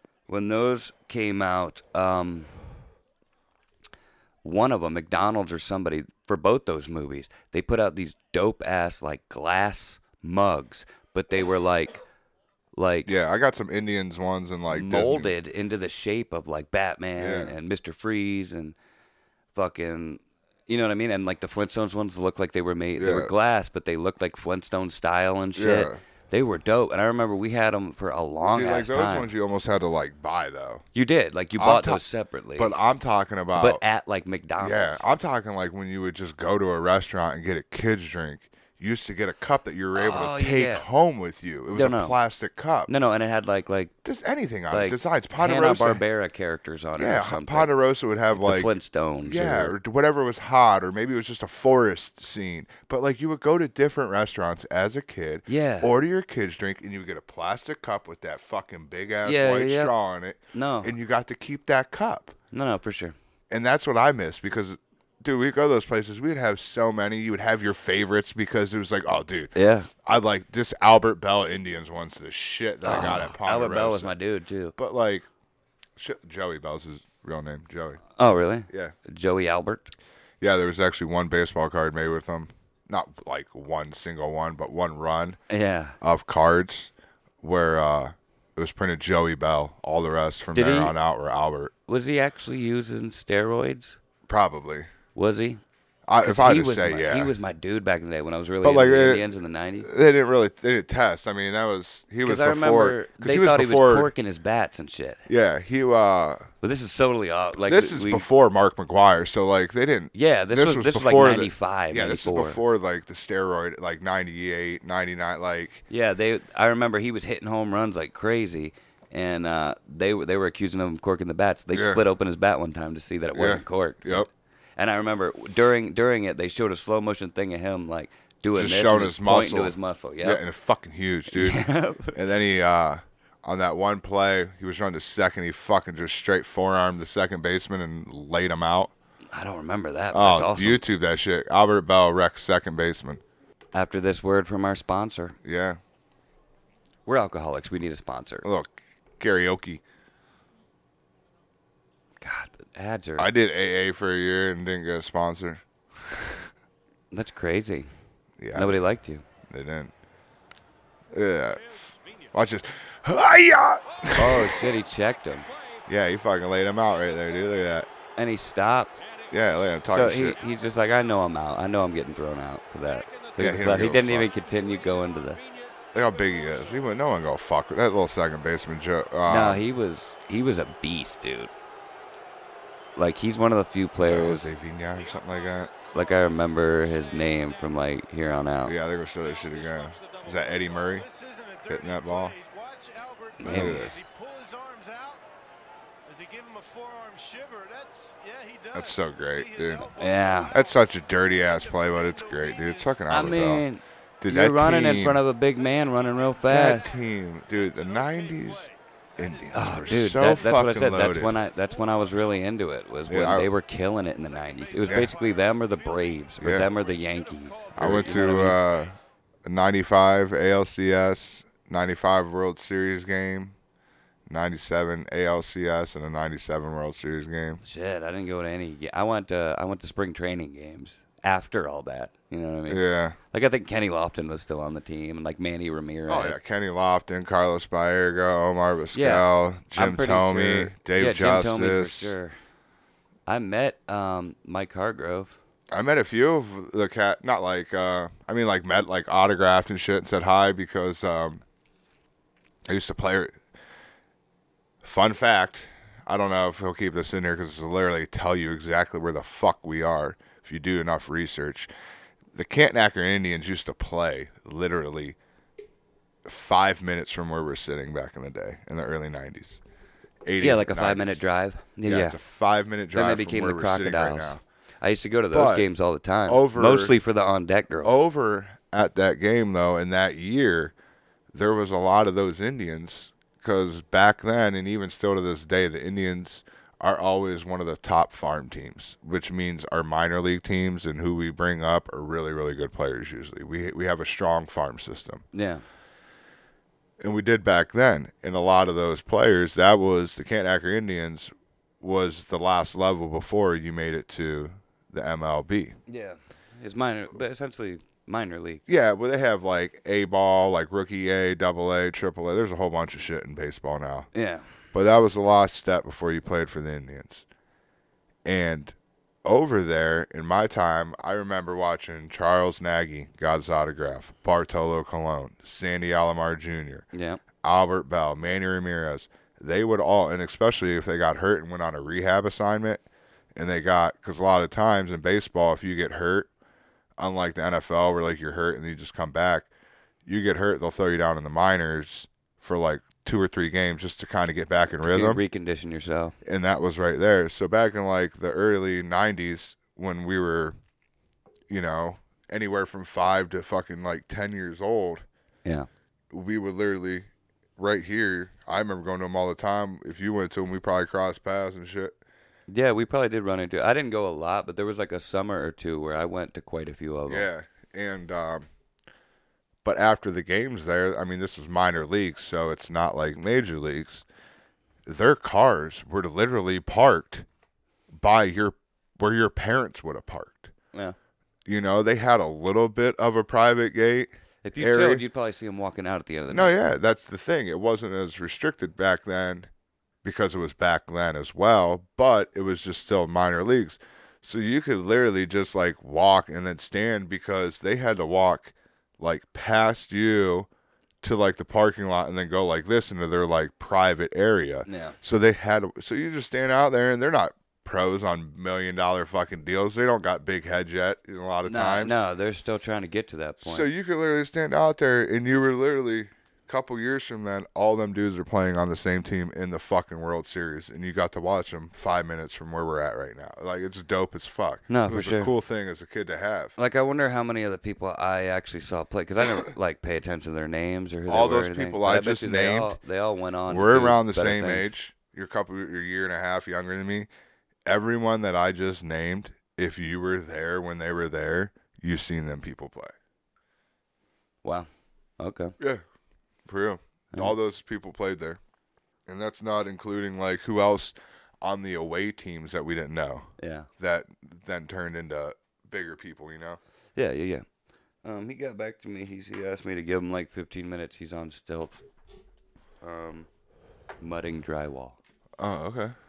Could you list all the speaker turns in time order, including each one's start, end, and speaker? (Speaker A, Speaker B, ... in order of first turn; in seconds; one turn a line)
Speaker A: 0.3-2.6
Speaker A: 4.4-12.0
Speaker A: 12.7-13.1
Speaker B: 13.0-15.3
Speaker A: 14.7-18.8
Speaker B: 17.2-17.5
Speaker A: 19.5-29.3
Speaker B: 23.0-23.3
Speaker B: 25.6-26.0
Speaker B: 28.5-30.8
Speaker A: 30.9-32.8
Speaker B: 31.6-32.0
Speaker B: 32.5-33.8
Speaker A: 33.5-35.0
Speaker B: 34.6-42.9
Speaker A: 39.9-40.9
Speaker A: 41.7-42.2
Speaker A: 42.9-43.9
Speaker B: 44.0-46.0
Speaker A: 44.7-47.7
Speaker B: 47.0-48.7
Speaker A: 48.3-49.7
Speaker B: 49.2-62.3
Speaker A: 55.5-55.9
Speaker A: 59.2-59.9
Speaker A: 60.5-60.9
Speaker A: 62.5-63.1
Speaker B: 63.5-74.1
Speaker A: 69.5-69.9
Speaker A: 72.8-74.8
Speaker B: 74.8-75.3
Speaker B: 76.0-78.0
Speaker A: 78.2-79.9
Speaker B: 78.7-79.0
Speaker B: 80.4-85.4
Speaker A: 85.5-86.0
Speaker B: 86.0-91.7
Speaker A: 90.5-90.9
Speaker A: 91.9-94.0
Speaker B: 94.3-94.9
Speaker A: 95.1-95.6
Speaker B: 96.1-97.3
Speaker A: 96.2-99.9
Speaker B: 98.6-99.2
Speaker B: 99.8-104.1
Speaker A: 102.2-105.2
Speaker B: 105.3-106.5
Speaker A: 106.6-108.3
Speaker B: 107.7-115.8
Speaker A: 110.1-112.6
Speaker A: 115.9-130.4
Speaker B: 121.7-122.0
Speaker B: 123.3-124.3
Speaker B: 128.6-138.9
Speaker A: 131.3-132.2
Speaker A: 139.3-140.8
Speaker B: 140.1-143.2
Speaker A: 143.7-145.4
Speaker B: 145.4-145.8
Speaker A: 147.1-148.5
Speaker B: 148.4-149.8
Speaker A: 152.2-153.3
Speaker B: 153.2-156.5
Speaker A: 157.1-157.9
Speaker B: 158.4-158.8
Speaker A: 158.5-159.2
Speaker B: 159.5-159.9
Speaker B: 161.1-161.8
Speaker B: 162.3-164.6
Speaker A: 164.1-165.5
Speaker B: 165.9-167.9
Speaker A: 168.2-169.0
Speaker C: 169.0-169.3
Speaker B: 169.3-170.4
Speaker A: 169.8-175.4
Speaker C: 170.3-170.7
Speaker C: 173.0-177.1
Speaker B: 173.4-174.3
Speaker B: 175.9-179.6
Speaker A: 179.2-181.5
Speaker A: 182.9-184.5
Speaker B: 184.0-185.7
Speaker C: 185.2-186.2
Speaker A: 185.9-188.7
Speaker C: 186.8-187.7
Speaker B: 188.6-191.1
Speaker C: 189.2-195.2
Speaker B: 191.7-192.3
Speaker A: 193.4-193.8
Speaker B: 193.4-194.0
Speaker C: 196.1-203.5
Speaker B: 198.7-199.9
Speaker A: 200.0-200.5
Speaker B: 200.5-203.6
Speaker A: 203.1-206.9
Speaker B: 204.2-205.2
Speaker C: 205.5-212.4
Speaker B: 206.5-211.3
Speaker A: 209.5-218.6
Speaker B: 213.1-213.5
Speaker C: 214.1-219.0
Speaker B: 214.8-215.1
Speaker B: 216.4-216.7
Speaker B: 217.8-223.5
Speaker B: 224.3-227.6
Speaker A: 227.6-236.4
Speaker B: 232.7-233.2
Speaker B: 236.1-242.1
Speaker A: 238.9-242.3
Speaker A: 243.2-245.3
Speaker B: 245.7-251.4
Speaker B: 252.7-253.4
Speaker B: 254.8-261.7
Speaker B: 262.3-265.2
Speaker B: 266.2-269.6
Speaker B: 270.2-271.2
Speaker A: 270.4-272.2
Speaker B: 271.8-274.4
Speaker A: 272.9-278.0
Speaker B: 275.3-275.7
Speaker B: 276.3-276.9
Speaker B: 277.8-280.7
Speaker B: 281.3-295.2
Speaker A: 295.3-295.6
Speaker B: 297.0-305.8
Speaker A: 305.9-308.6
Speaker B: 308.7-314.1
Speaker A: 314.1-314.5
Speaker B: 314.7-317.2
Speaker B: 318.2-326.9
Speaker A: 326.9-327.2
Speaker B: 327.4-332.8
Speaker B: 333.3-336.3
Speaker B: 337.0-339.5
Speaker B: 340.1-345.2
Speaker A: 344.9-346.1
Speaker B: 346.2-350.6
Speaker B: 351.5-355.0
Speaker B: 356.1-362.0
Speaker A: 362.5-367.3
Speaker B: 367.1-368.5
Speaker B: 369.6-374.0
Speaker B: 374.9-377.2
Speaker B: 377.9-380.5
Speaker B: 381.4-385.0
Speaker A: 384.4-386.5
Speaker B: 386.3-389.5
Speaker B: 390.0-400.5
Speaker B: 401.0-411.9
Speaker A: 404.6-405.0
Speaker A: 411.4-413.7
Speaker B: 413.4-426.6
Speaker A: 424.7-425.3
Speaker A: 426.6-434.7
Speaker B: 431.1-432.8
Speaker B: 433.5-437.1
Speaker B: 437.6-442.9
Speaker A: 445.2-445.6
Speaker B: 445.6-445.8
Speaker B: 446.4-448.4
Speaker B: 449.1-456.6
Speaker A: 453.4-453.7
Speaker A: 456.9-457.4
Speaker A: 458.0-461.8
Speaker A: 462.8-463.3
Speaker A: 464.0-465.0
Speaker B: 465.4-465.9